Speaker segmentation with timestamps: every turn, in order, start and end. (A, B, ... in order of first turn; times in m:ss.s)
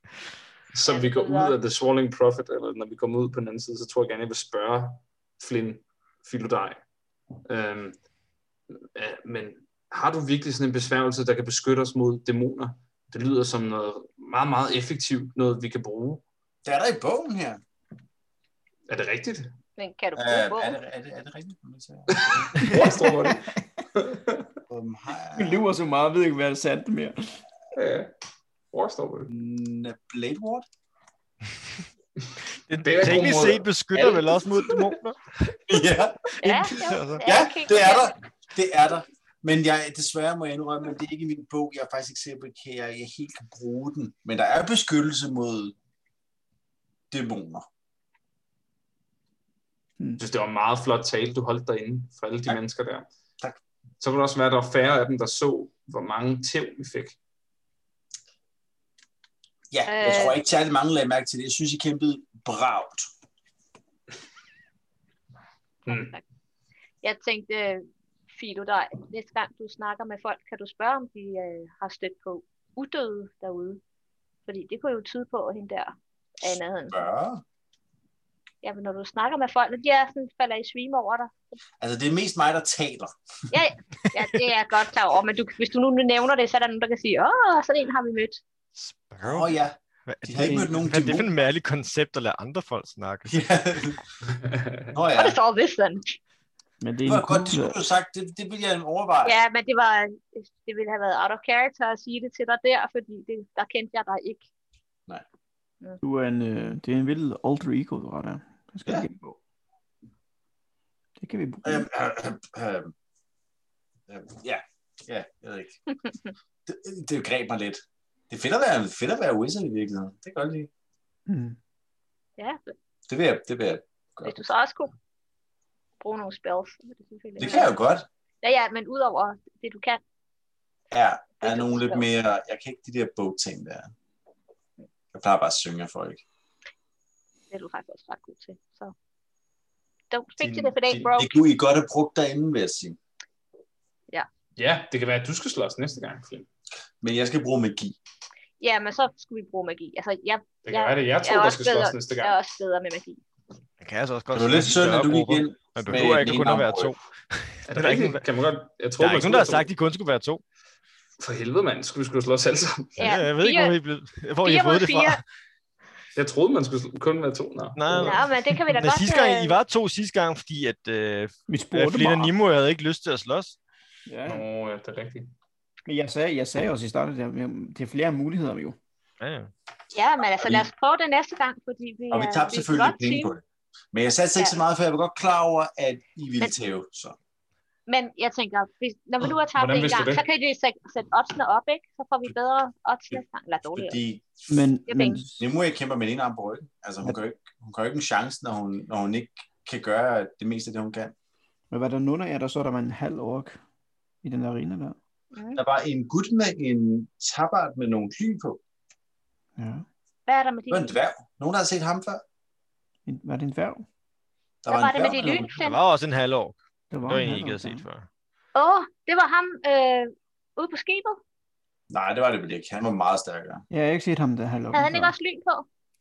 0:00.7-0:06.8 A
0:00.9-0:01.6 B
0:07.4-0:08.0 A
0:08.8-0:16.2 A
0:16.6-0:17.6 C
0:18.9-0:19.5 A
0:19.8-0:20.8 B
0:20.2-0:22.4 C
0:22.1-0:24.5 A
0:22.5-0:23.6 D
0:24.7-0:25.6 C
0:25.3-0:27.4 D
0:27.7-0:28.1 A
0:28.7-0:29.3 A
0:29.3-0:30.6 C
0:32.7-0:35.8 E
0:32.8-0:33.7 A
0:33.9-0:34.7 C
0:35.7-0:45.7 C
0:36.4-0:38.1 B
0:36.4-0:37.5 E
0:47.1-0:47.7 C
0:50.2-0:53.1 A
0:54.0-0:57.2 A
0:59.7-1:03.1 C
0:59.8-1:00.4 B
1:05.8-1:06.2 B
1:05.9-1:06.1 A
1:07.0-1:13.8 B
1:14.4-1:17.0 B
1:16.9-1:17.4 C
1:18.6-1:21.3 B
1:21.8-1:23.1 C
1:23.5-1:28.4 B
1:28.8-1:33.4 E
1:29.2-1:31.3 C
1:30.4-1:30.7 D
1:33.3-1:34.1 C
1:34.3-1:34.9 A
1:34.9-1:35.4 C
1:35.1-1:36.2 B
1:36.8-1:37.8 D
1:37.0-1:39.4 C
1:39.2-1:44.5 B
1:46.0-1:49.3 D
1:51.2-1:51.8 D
1:51.6-1:52.9 C
1:54.1-1:55.8 C
1:56.6-2:00.7 C
2:01.3-2:01.6 D
2:02.4-2:02.7 B
2:03.1-2:04.4 C
2:04.2-2:04.9 B
2:06.0-2:07.7 B
2:07.4-2:08.0 C
2:08.4-2:10.0 B
2:10.9-2:13.9 C
2:11.4-2:12.1 B
2:15.1-2:16.2 C
2:17.5-2:18.9 B
2:20.1-2:21.4 B
2:20.4-2:21.0 A
2:20.9-2:23.0 C
2:24.6-2:26.5 A
2:27.0-2:28.0 C
2:28.6-2:33.2 B
2:30.6-2:32.3 A
2:33.8-2:38.2 E
2:34.3-2:36.9 C
2:37.7-2:39.7 A
2:39.0-2:40.4 E
2:41.2-2:43.0 A
2:43.0-2:43.8 B
2:43.0-2:45.2 E
2:44.4-2:45.2 B
2:46.1-2:48.3 A
2:47.8-2:53.6 E
2:48.0-2:49.6 B
2:51.5-2:52.3 D
2:54.0-2:54.4 D
2:54.2-2:55.3 A
2:55.8-2:58.8 D
2:59.2-2:59.5 E
2:59.9-3:03.3 B
3:00.4-3:00.7 C
3:02.1-3:07.2 C
3:07.9-3:14.0 B
3:09.2-3:10.2 A
3:13.7-3:14.6 C
3:14.5-3:15.4 D
3:14.9-3:15.2 B
3:15.3-3:21.1 C
3:21.7-3:23.6 D
3:24.2-3:25.0 D
3:25.3-3:25.6 B
3:25.6-3:28.6 C
3:29.6-3:29.8 D
3:30.3-3:30.9 B
3:30.7-3:32.2 C
3:33.0-3:33.8 D
3:34.6-3:35.5 C
3:34.7-3:35.8 B
3:35.6-3:38.1 E
3:36.9-3:37.8 D
3:38.5-3:41.2 B
3:41.9-3:43.6 C
3:43.7-3:45.1 D
3:44.7-3:45.6 B